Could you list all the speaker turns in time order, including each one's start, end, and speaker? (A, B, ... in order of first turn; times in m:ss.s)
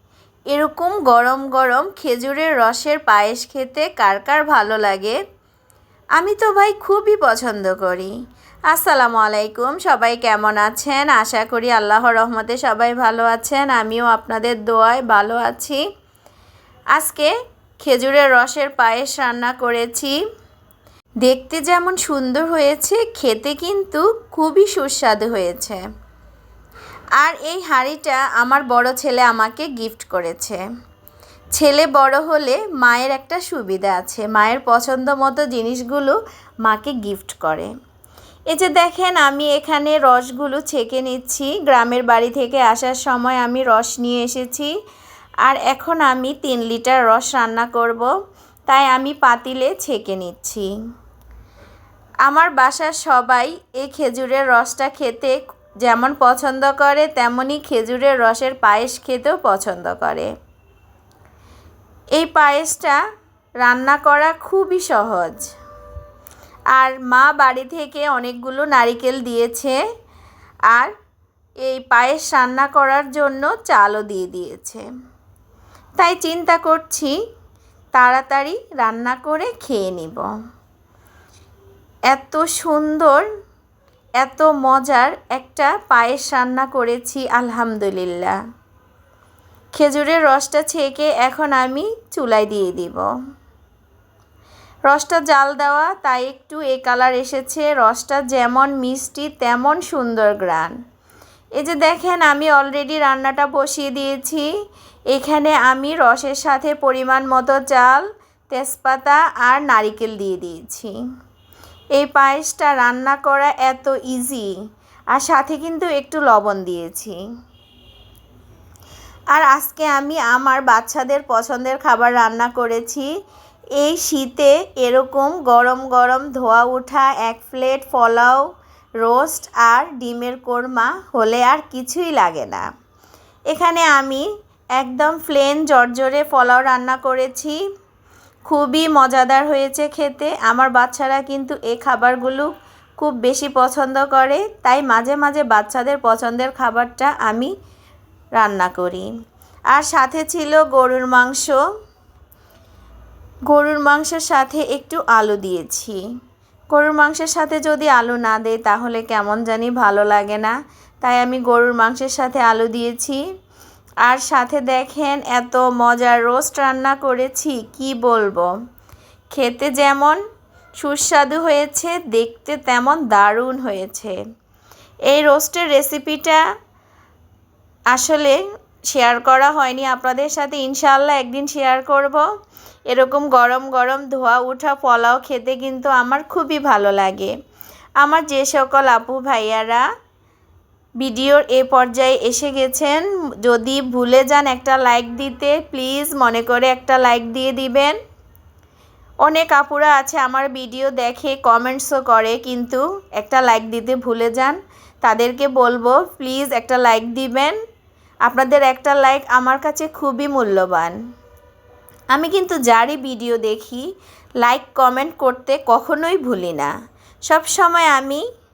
0:00.5-0:05.2 A
0:06.2-0:08.1 A
0:08.7-0:15.8 A
0:16.9-0:17.3 A
0:17.8-0:20.2 A
0:21.2-0:25.8 A
0:27.2-0:30.6 A
0:31.5-0:37.7 A
0:38.5-0:44.7 A
0:45.4-0:48.1 A
0:48.7-0:50.7 A
0:52.2-1:00.3 A
1:02.1-1:03.0 A
1:03.6-1:05.5 A
1:06.7-1:09.8 A
1:11.6-1:14.8 A
1:16.0-1:17.1 A
1:17.9-1:20.3 A
1:22.1-1:23.2 A
1:24.2-1:28.4 A
1:29.7-1:33.0 A
1:34.9-1:40.8 A
1:41.6-1:44.4 A
1:45.1-1:50.9 A
1:51.9-1:54.5 A
1:55.1-1:57.2 A
1:59.3-2:03.1 A
2:03.8-2:08.4 A
2:09.0-2:12.6 A
2:13.5-2:17.6 A
2:18.4-2:27.5 A
2:28.4-2:29.1 A
2:29.7-2:31.6 A
2:33.5-2:36.0 A
2:36.7-2:43.2 A
2:44.0-2:48.5 A
2:49.3-2:50.2 A
2:50.8-2:54.2 A
2:55.1-2:56.4 A
2:57.9-2:58.4 A
2:58.9-3:02.2 A
3:02.9-3:07.3 A
3:08.0-3:09.8 A
3:11.0-3:18.0 A
3:19.2-3:27.6 A
3:28.2-3:31.0 A
3:32.1-3:33.8 A
3:34.4-3:36.7 A
3:37.3-3:38.2 A